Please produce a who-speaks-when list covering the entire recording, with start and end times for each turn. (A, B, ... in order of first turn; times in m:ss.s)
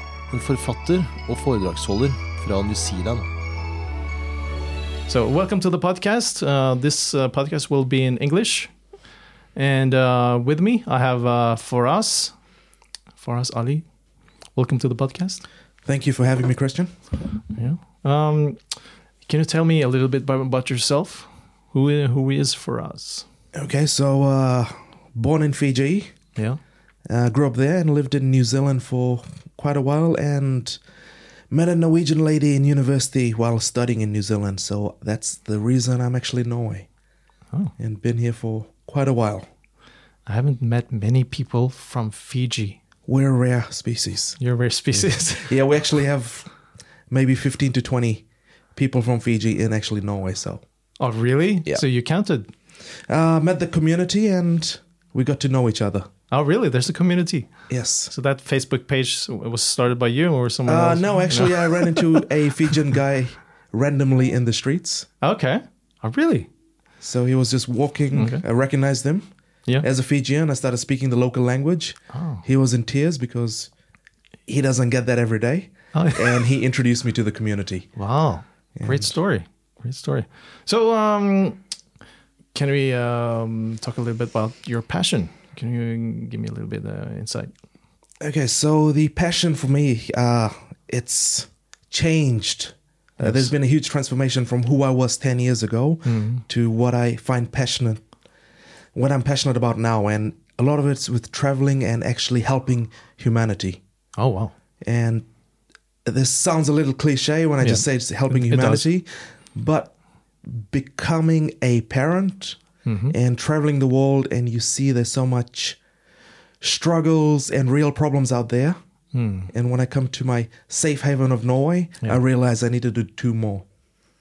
0:00.3-0:03.2 A
0:05.1-0:08.7 B
0:09.5-0:12.3 B
0:13.2-0:13.8 B
0:14.6-0:15.4 B
0:15.8-0:16.9 C
0:17.5-0:23.2 B
0:23.5-0:26.2 C
0:27.0-0:30.8 C
0:31.5-0:36.9 C
0:37.8-0:39.5 C
0:40.2-0:42.8 B
0:43.1-0:44.4 C
0:44.4-0:45.6 B
0:45.4-0:46.5 C
0:47.1-0:50.6 C
0:51.0-0:52.5 B
0:53.1-0:56.1 C
0:56.3-0:57.5 B
0:57.7-0:58.1 C
0:58.1-1:02.8 B
1:00.6-1:05.1 C
1:05.2-1:06.5 B
1:07.0-1:09.3 C
1:08.1-1:08.4 B
1:09.8-1:13.7 C
1:12.1-1:12.4 B
1:14.5-1:17.9 C
1:15.9-1:16.4 B
1:18.0-1:21.6 B
1:18.8-1:19.1 C
1:22.5-1:27.5 B
1:28.2-1:38.0 C
1:33.2-1:33.5 B
1:36.0-1:36.4 B
1:38.9-1:43.8 C
1:44.2-1:44.5 B
1:44.8-1:45.2 C
1:46.0-1:49.9 C
1:47.6-1:48.8 B
1:50.4-1:55.8 C
1:52.8-1:53.1 B
1:56.6-1:58.8 C
1:59.1-1:59.5 B
1:59.5-2:03.6 C